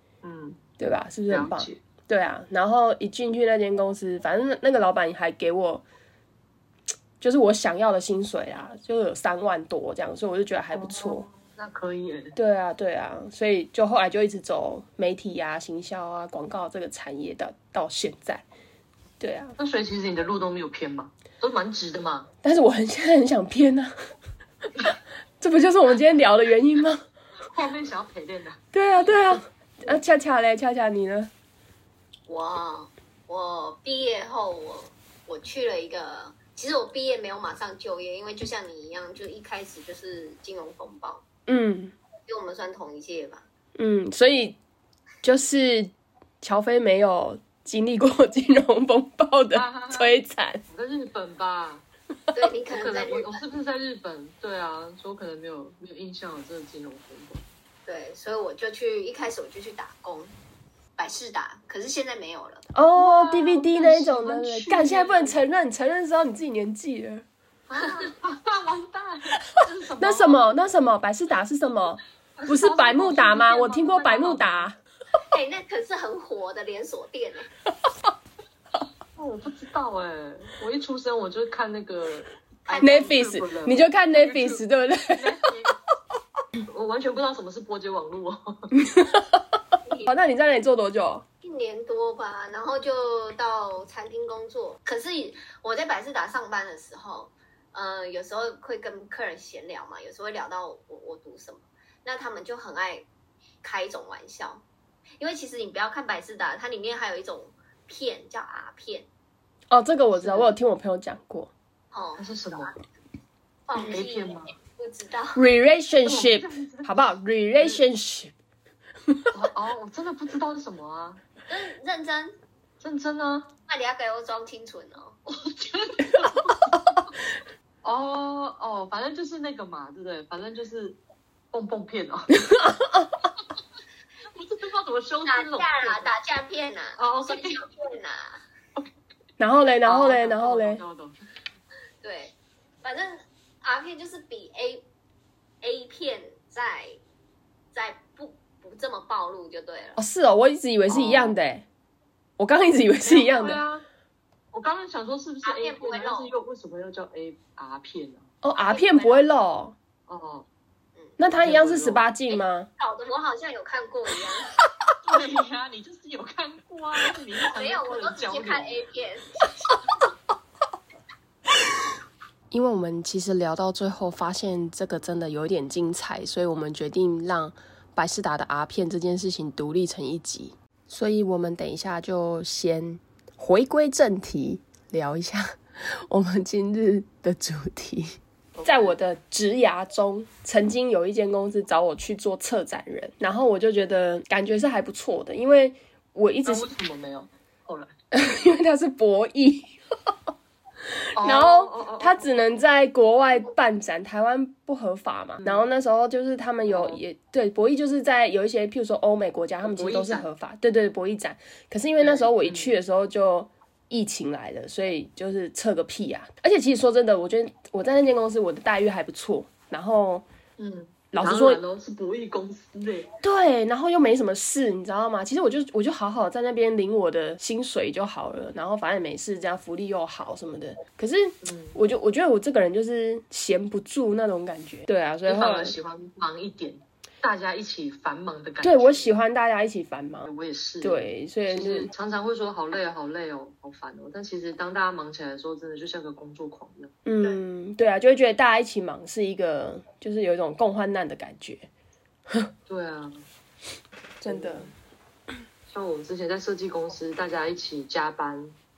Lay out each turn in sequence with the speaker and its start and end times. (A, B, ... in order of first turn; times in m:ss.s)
0:00.2-0:00.6 A
0:00.8-0:05.8 B
0:01.3-0:01.8 A
0:07.2-0:11.2 B
0:10.7-0:12.4 A
0:12.4-0:18.4 B
0:19.2-0:19.6 B
0:19.6-0:22.3 A
0:22.4-0:23.9 B
0:25.4-0:27.0 B
0:27.5-0:28.6 A
0:28.7-0:31.3 B
0:32.3-0:41.2 C
0:41.5-0:42.0 B
0:42.3-0:43.4 C
0:43.8-0:44.6 B
0:45.2-0:50.6 B
0:49.5-0:51.8 A
0:52.3-0:53.4 C
0:52.7-0:57.4 A
0:57.9-1:00.3 C
1:01.0-1:02.6 C
1:02.7-1:07.2 B
1:03.0-1:05.4 A
1:07.7-1:10.6 A
1:10.0-1:14.8 B
1:12.4-1:14.7 A
1:15.3-1:17.5 C
1:19.2-1:25.8 A
1:22.7-1:23.1 C
1:22.8-1:25.5 B
1:26.7-1:28.8 A
1:28.8-1:29.4 B
1:29.9-1:30.1 C
1:30.0-1:31.2 B
1:31.4-1:43.1 C
1:43.6-1:44.6 C
1:45.2-1:49.1 C
1:49.7-1:51.5 B
1:50.2-1:50.5 A
1:51.9-1:52.7 C
1:52.2-1:52.7 A
1:53.7-1:55.4 C
1:53.8-1:54.5 A
1:55.4-1:58.3 B
1:56.0-1:56.9 A
1:59.3-2:01.2 A
2:01.5-2:02.4 C
2:02.8-2:03.5 A
2:03.7-2:05.2 C
2:05.3-2:06.8 A
2:07.8-2:11.0 A
2:11.5-2:12.4 A
2:12.5-2:13.1 B
2:14.3-2:16.1 A
2:15.3-2:18.4 C
2:17.0-2:17.6 A
2:19.4-2:20.8 B
2:19.8-2:21.2 A
2:22.0-2:24.8 C
2:25.6-2:27.0 C
2:27.7-2:30.0 C
2:30.0-2:31.7 B
2:30.9-2:31.4 A
2:32.4-2:33.6 B
2:33.0-2:33.8 A
2:34.5-2:38.3 A
2:35.4-2:36.3 C
2:38.4-2:39.8 B
2:38.6-2:39.2 C
2:40.1-2:40.5 A
2:41.2-2:42.7 B
2:41.3-2:42.1 A
2:42.3-2:44.5 C
2:45.0-2:48.8 A
2:47.5-2:49.3 C
2:52.5-3:16.7 B
3:08.6-3:09.0 A
3:16.5-3:17.9 A
3:18.1-3:19.7 B
3:21.2-3:22.5 A
3:21.2-3:40.2 B
3:25.4-3:25.7 A
3:26.7-3:27.0 A
3:29.6-3:30.3 A
3:32.0-3:32.8 A
3:40.6-3:43.1 A
3:41.1-3:41.6 B
3:43.2-3:55.8 B
3:51.4-3:51.8 A
3:55.3-3:59.2 A
3:58.6-4:00.3 B
4:00.3-4:06.9 A
4:00.8-4:01.9 B
4:07.0-4:11.7 B
4:12.7-4:13.3 A
4:14.2-4:14.7 B
4:14.2-4:14.7 A
4:15.7-4:18.6 A